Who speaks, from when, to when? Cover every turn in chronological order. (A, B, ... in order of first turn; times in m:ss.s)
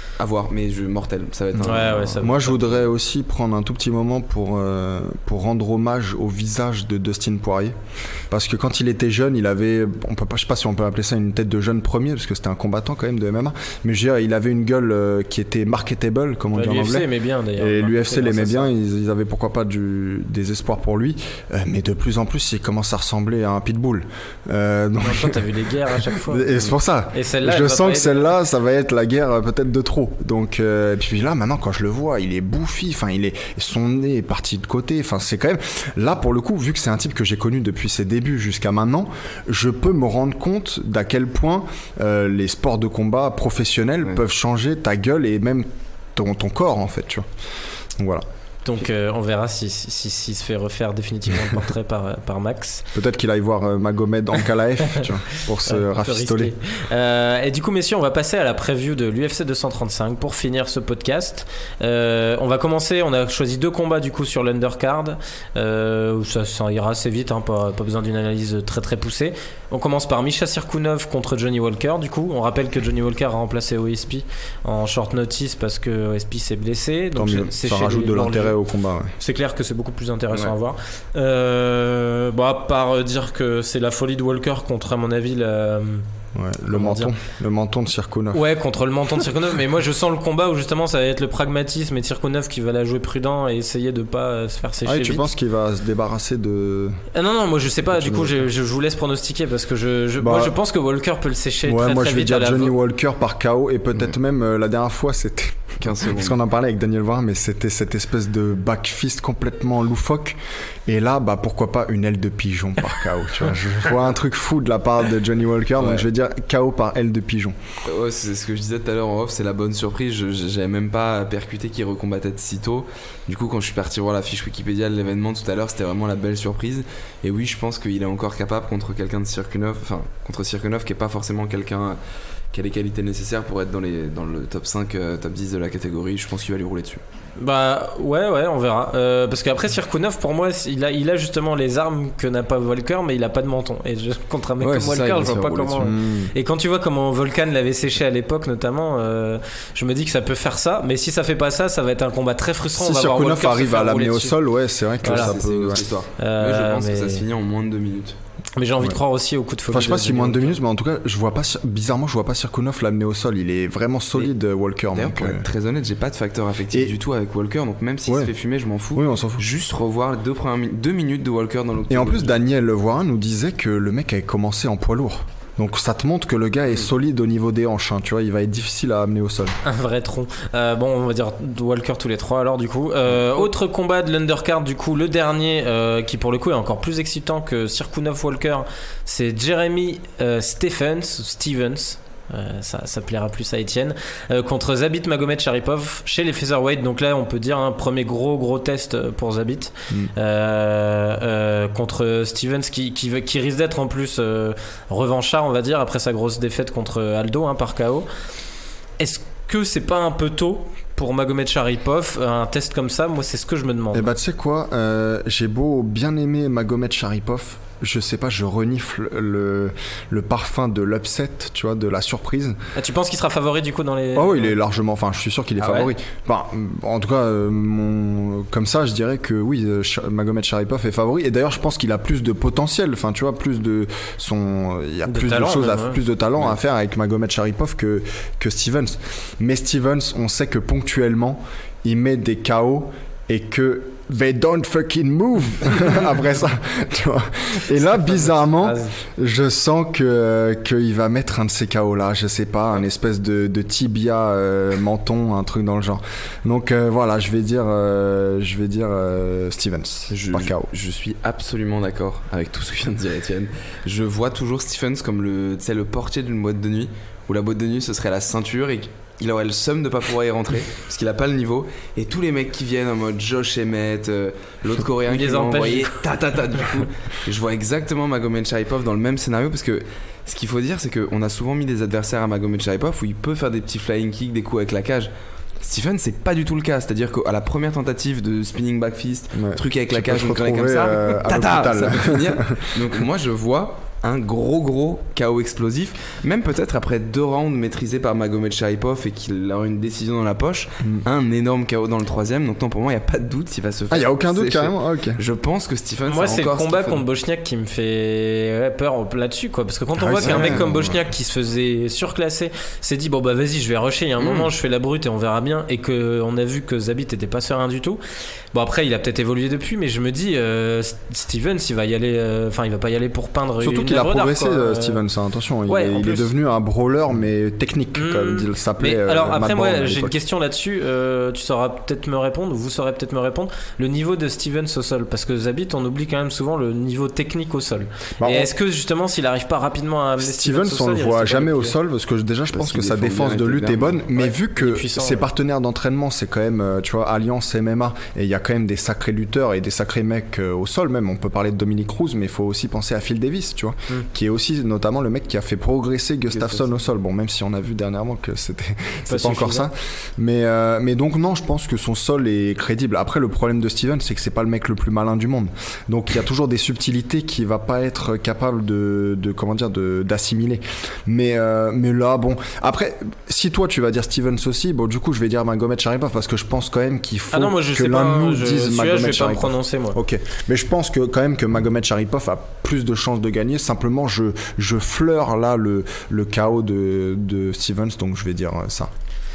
0:00.2-0:02.3 A
0:01.5-0:07.8 B
0:01.6-0:02.7 C
0:08.3-0:47.3 B
0:16.6-0:18.7 C
0:25.0-0:26.5 C
0:27.1-0:28.3 C
0:48.0-0:48.2 B
0:48.6-0:52.8 C
0:52.9-0:56.5 B
0:55.6-1:18.6 C
1:17.2-1:19.1 B
1:19.2-1:26.1 C
1:26.4-1:28.4 B
1:26.7-1:27.1 C
1:28.3-1:35.3 C
1:34.8-1:37.0 B
1:37.1-1:42.8 C
1:37.9-1:38.4 B
1:40.2-1:40.6 B
1:41.6-1:57.6 B
1:45.8-1:46.4 A
1:55.8-1:56.1 A
1:57.8-2:12.0 A
2:12.5-2:17.0 A
2:17.4-2:34.4 C
2:24.6-2:25.9 A
2:25.8-2:26.3 B
2:32.8-2:35.8 B
2:35.0-2:35.4 C
2:35.0-2:38.2 A
2:36.2-2:37.2 C
2:38.6-2:40.6 C
2:39.7-2:45.4 B
2:44.9-2:52.4 A
2:49.0-2:49.4 B
2:51.9-2:59.6 B
2:59.6-3:28.1 C
3:29.0-3:34.1 C
3:33.9-3:42.6 B
3:42.8-3:44.6 C
3:44.2-4:20.7 B
3:45.6-3:45.9 C
3:55.0-3:56.0 C
4:07.9-4:09.0 C
4:20.1-5:07.0 A
4:35.1-4:36.0 C
4:49.4-4:52.9 B
5:03.9-5:05.2 B
5:06.1-5:18.0 C
5:10.0-5:11.0 B
5:10.2-5:10.6 A
5:14.2-5:14.5 A
5:18.5-5:25.0 C
5:23.6-5:30.2 B
5:25.7-5:26.3 C
5:28.0-5:41.8 C
5:38.2-5:38.5 B
5:40.2-6:28.9 B
5:42.5-5:44.3 A
5:44.4-5:45.2 C
5:56.3-5:56.7 A
5:59.1-5:59.7 C
6:17.3-6:20.0 C